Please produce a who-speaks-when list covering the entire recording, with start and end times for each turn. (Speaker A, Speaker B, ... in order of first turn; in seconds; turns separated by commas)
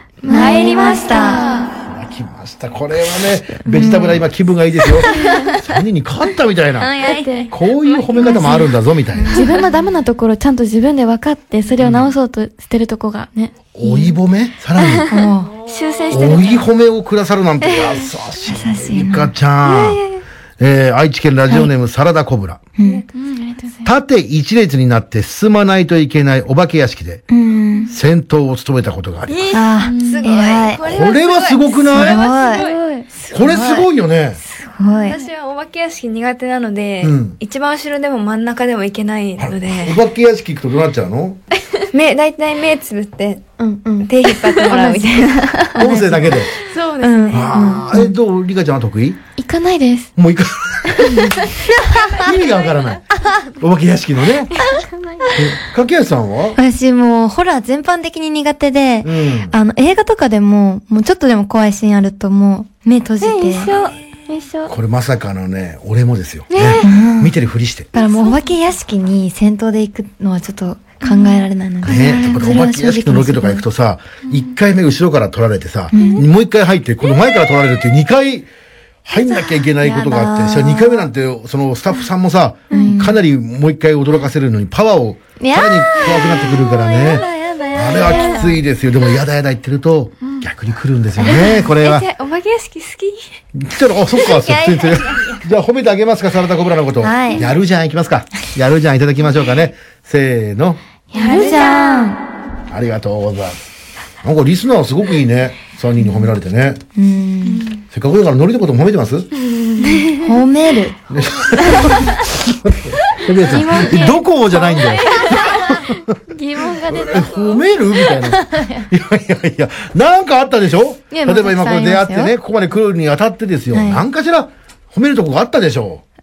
Speaker A: 0.2-1.7, Speaker B: 0.2-1.7, Speaker C: 0.3-1.6, Speaker D: 1.8-9.4, Speaker C: 3.6-4.2, Speaker C: 4.9-5.3, Speaker B: 5.1-5.5, Speaker B: 7.0-7.5, Speaker B: 8.2-8.6, Speaker C: 8.2-9.4, Speaker B: 9.3-14.2, Speaker D: 11.8-12.1, Speaker D: 13.8-15.1, Speaker B: 14.8-16.7, Speaker C: 15.1-15.5, Speaker D: 16.1-20.0, Speaker C: 18.5-19.3, Speaker B: 19.6-20.2, Speaker D: 20.6-22.6, Speaker C: 22.8-23.0, Speaker B: 23.1-23.9, Speaker D: 23.8-27.3, Speaker C: 27.3-27.9, Speaker D: 27.9-29.6, Speaker A: 29.4-32.9, Speaker C: 29.5-30.8, Speaker B: 29.8-30.3, Speaker D: 30.8-32.3, Speaker C: 31.9-33.9, Speaker B: 32.4-33.1, Speaker D: 33.3-34.4, Speaker C: 34.5-35.2, Speaker A: 35.0-40.0, Speaker D: 37.0-37.4, Speaker D: 39.4-41.4, Speaker A: 41.9-43.5, Speaker C: 43.6-48.1, Speaker A: 44.0-45.8, Speaker D: 45.8-46.5, Speaker A: 46.6-47.8, Speaker D: 47.3-49.2, Speaker B: 49.4-50.1, Speaker D: 50.2-51.5, Speaker B: 51.1-51.4, Speaker D: 52.1-54.6, Speaker B: 54.6-55.4, Speaker D: 55.3-56.6, Speaker C: 56.6-63.7, Speaker D: 59.0-59.5, Speaker B: 63.2-64.7, Speaker A: 63.7-63.9, Speaker D: 64.7-67.9, Speaker B: 66.5-66.9, Speaker C: 66.8-67.3, Speaker B: 67.9-68.4, Speaker C: 67.9-73.7, Speaker B: 71.0-72.5, Speaker D: 71.8-78.5, Speaker C: 75.9-76.2, Speaker D: 79.0-92.1, Speaker C: 79.1-81.1, Speaker C: 82.7-83.2, Speaker B: 82.7-83.0, Speaker C: 85.4-88.6, Speaker B: 86.1-86.3, Speaker B: 87.0-87.3, Speaker B: 87.8-88.5, Speaker A: 91.3-93.2, Speaker D: 93.5-100.8, Speaker C: 94.5-95.3, Speaker C: 97.0-97.5, Speaker C: 101.1-102.2, Speaker B: 101.2-101.9, Speaker A: 101.2-101.9, Speaker D: 102.7-103.7, Speaker D: 104.2-106.8, Speaker C: 107.0-107.7, Speaker B: 107.5-107.8, Speaker D: 107.9-109.3, Speaker B: 109.5-110.2, Speaker C: 109.8-111.0, Speaker D: 111.1-116.2, Speaker B: 111.7-112.0, Speaker B: 113.4-117.6, Speaker D: 116.8-126.0, Speaker C: 118.2-118.9, Speaker C: 121.1-122.3, Speaker C: 123.7-124.0